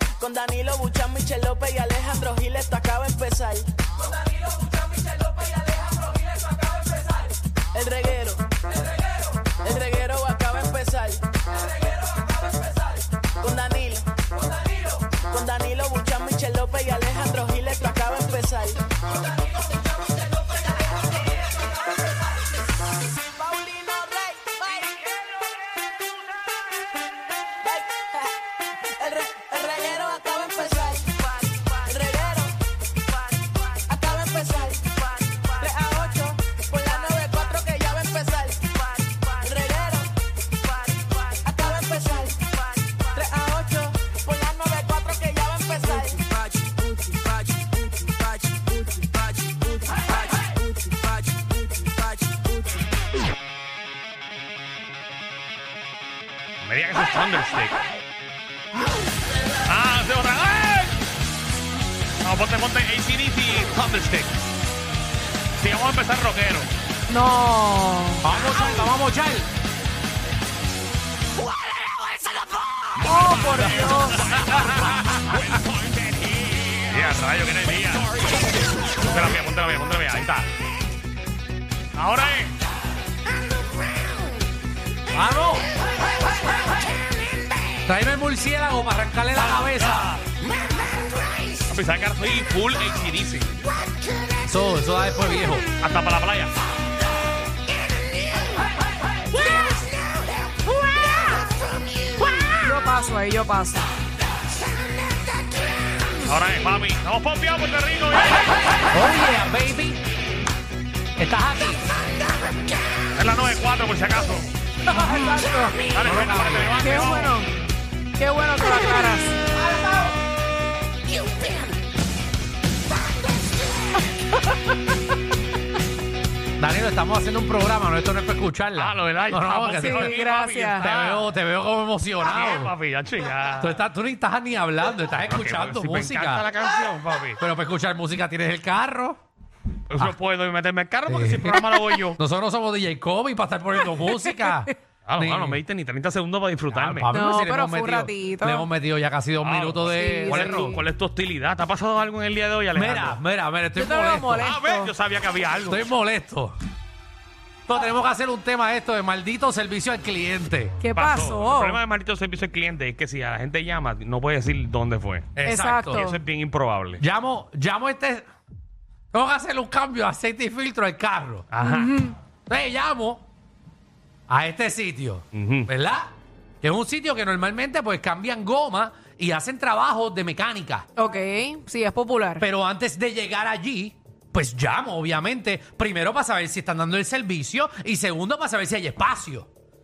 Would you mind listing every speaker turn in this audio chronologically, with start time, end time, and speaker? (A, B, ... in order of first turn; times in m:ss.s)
0:00.2-0:03.7 A
0:05.3-0:06.8 B
0:07.7-0:08.5 A
0:09.6-0:11.3 A
0:13.4-0:14.2 A
0:15.1-0:18.8 A
0:23.2-0:25.1 A
0:27.6-0:32.6 A
0:33.1-0:52.8 A
0:56.6-0:57.8 C
0:59.6-1:01.0 C
1:02.2-1:04.3 C
1:05.6-1:06.7 C
1:07.1-1:08.3 D
1:08.2-1:09.5 B
1:08.4-1:08.7 C
1:13.0-1:14.4 D
1:13.1-1:18.2 C
1:19.0-1:20.5 C
1:21.9-1:22.5 C
1:25.1-1:25.7 B
1:27.8-1:30.1 B
1:29.4-1:30.2 C
1:31.6-1:33.6 C
1:34.4-1:35.6 B
1:35.8-1:36.5 C
1:41.0-1:41.3 D
1:42.2-1:43.9 D
1:46.2-1:48.7 C
1:48.9-1:50.0 B
1:51.2-1:51.9 B
1:53.1-1:54.5 C
1:54.8-1:55.8 D
1:54.8-1:56.9 B
1:55.9-1:57.4 C
1:56.8-1:57.5 D
1:58.2-1:59.4 D
2:06.6-2:10.2 B
2:08.7-2:11.3 C
2:09.7-2:10.9 D
2:10.8-2:12.7 B
2:12.2-2:13.8 C
2:13.6-2:16.5 B
2:15.2-2:17.4 C
2:17.4-2:19.2 B
2:19.9-2:22.2 C
2:21.0-2:25.6 B
2:25.1-2:27.1 C
2:26.7-2:30.8 B
2:27.1-2:28.7 D
2:29.4-2:33.2 C
2:29.9-2:30.8 D
2:32.7-2:34.6 B
2:33.8-2:34.9 D
2:34.4-2:35.9 C
2:35.6-2:36.6 B
2:37.7-2:40.8 B
2:40.8-2:41.8 D
2:40.9-2:45.4 C
2:45.4-2:46.1 B
2:45.4-2:46.2 D
2:45.9-2:47.0 C
2:47.0-2:48.3 B
2:49.1-2:51.5 B
2:51.5-2:52.0 C
2:51.6-2:52.1 D
2:52.5-2:53.2 B
2:54.3-3:00.9 B
2:55.3-2:55.7 C
3:01.0-3:02.4 D
3:02.4-3:09.5 B